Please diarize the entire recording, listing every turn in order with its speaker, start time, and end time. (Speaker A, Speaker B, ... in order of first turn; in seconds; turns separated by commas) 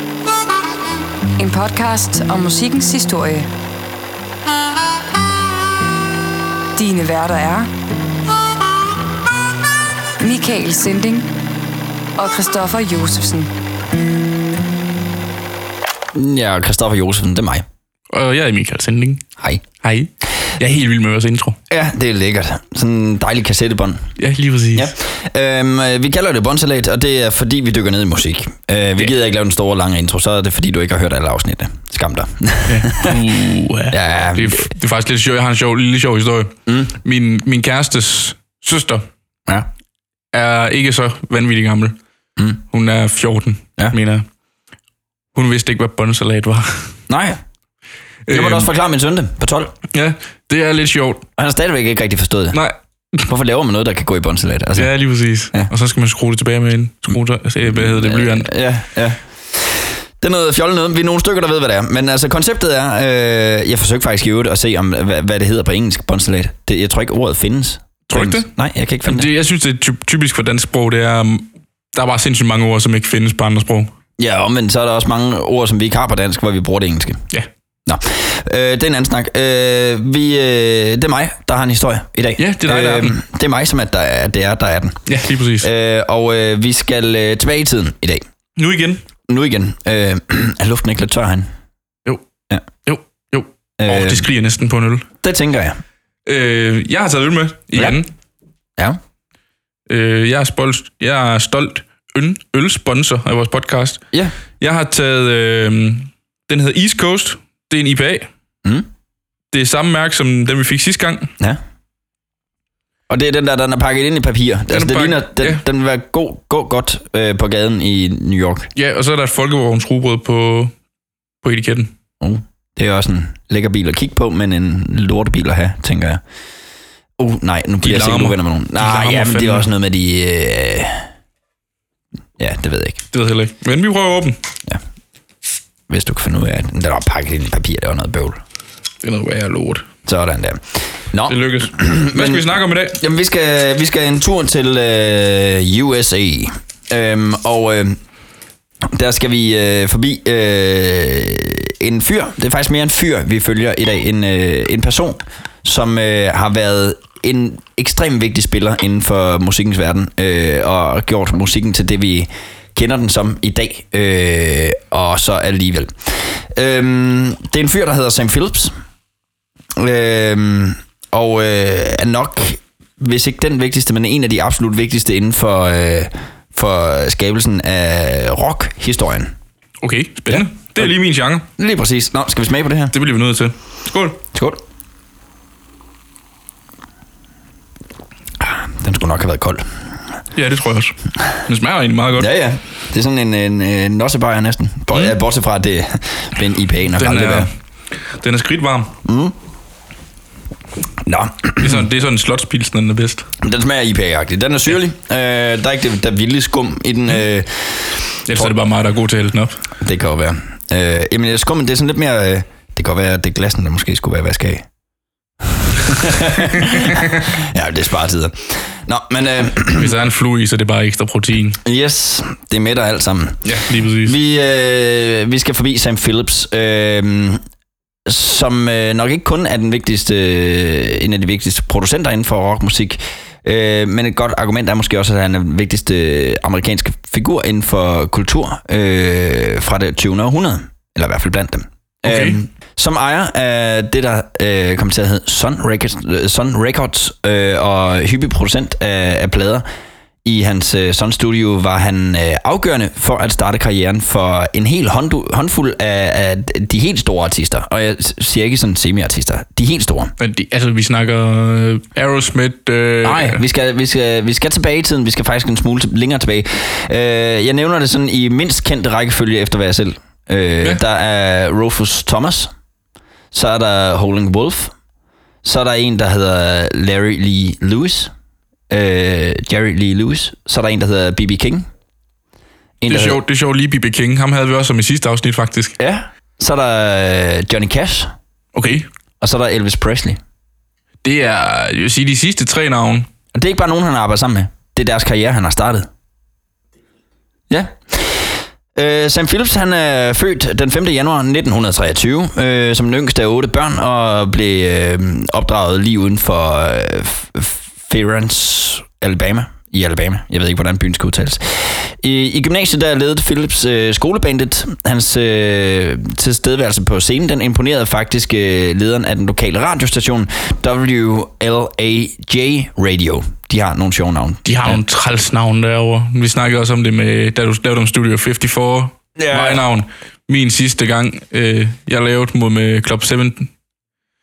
Speaker A: 1.4-3.5, Speaker A: 6.7-7.7, Speaker A: 10.2-11.3, Speaker A: 12.2-13.5, Speaker B: 16.1-17.6, Speaker C: 18.1-19.2, Speaker C: 19.8-21.6, Speaker B: 21.7-24.1, Speaker C: 24.2-24.9, Speaker B: 24.7-33.2, Speaker C: 32.7-39.0, Speaker B: 33.9-34.7, Speaker B: 36.6-36.9, Speaker C: 40.3-42.0, Speaker C: 42.7-44.2, Speaker C: 45.3-47.0, Speaker B: 47.1-47.4, Speaker C: 48.2-48.7, Speaker B: 48.3-49.7, Speaker C: 49.9-51.2, Speaker B: 51.4-52.6, Speaker C: 52.5-53.2, Speaker B: 53.2-54.9, Speaker C: 54.7-58.5, Speaker B: 57.7-69.3, Speaker C: 68.1-68.5, Speaker C: 69.0-73.9, Speaker B: 74.2-77.2, Speaker B: 77.8-85.1, Speaker C: 82.4-83.2, Speaker C: 85.1-85.7, Speaker B: 85.6-88.2, Speaker C: 88.5-89.0, Speaker B: 89.3-91.5, Speaker C: 92.8-95.1, Speaker B: 93.8-94.2, Speaker B: 95.2-95.8, Speaker C: 96.2-98.1, Speaker C: 99.9-104.0, Speaker C: 104.6-108.3, Speaker C: 109.5-111.3, Speaker B: 113.1-118.7, Speaker C: 114.7-115.6, Speaker C: 118.7-120.7, Speaker C: 121.4-121.9, Speaker B: 122.2-126.2, Speaker B: 127.2-131.1, Speaker C: 127.8-129.7, Speaker B: 132.4-133.0, Speaker C: 133.1-134.4, Speaker B: 135.9-138.4, Speaker C: 139.0-139.9, Speaker B: 140.0-148.0, Speaker C: 141.2-143.0, Speaker B: 148.9-168.7, Speaker B: 169.8-179.3, Speaker C: 179.8-181.5, Speaker B: 180.3-180.9, Speaker B: 181.6-182.9, Speaker C: 182.9-184.2, Speaker B: 184.3-184.6, Speaker B: 188.4-189.7, Speaker C: 190.3-192.3, Speaker B: 192.2-197.5, Speaker C: 196.9-198.9, Speaker B: 199.0-199.3, Speaker B: 201.0-201.8, Speaker C: 201.6-203.3, Speaker B: 203.4-208.5, Speaker C: 208.3-209.6, Speaker B: 209.8-214.6, Speaker B: 215.5-219.9, Speaker C: 219.7-221.6, Speaker B: 221.6-227.4, Speaker C: 223.4-224.2, Speaker B: 228.1-249.6, Speaker C: 242.0-242.4, Speaker B: 250.2-260.1, Speaker C: 260.2-263.4, Speaker B: 263.0-272.5, Speaker B: 273.3-274.7, Speaker B: 275.4-278.1, Speaker B: 278.7-281.6, Speaker B: 282.8-283.2, Speaker C: 282.8-285.8, Speaker B: 285.8-288.1, Speaker C: 288.5-288.9, Speaker B: 289.2-290.2, Speaker C: 291.0-293.1, Speaker B: 293.3-295.9, Speaker B: 297.5-324.8, Speaker C: 324.4-333.5, Speaker B: 329.1-329.6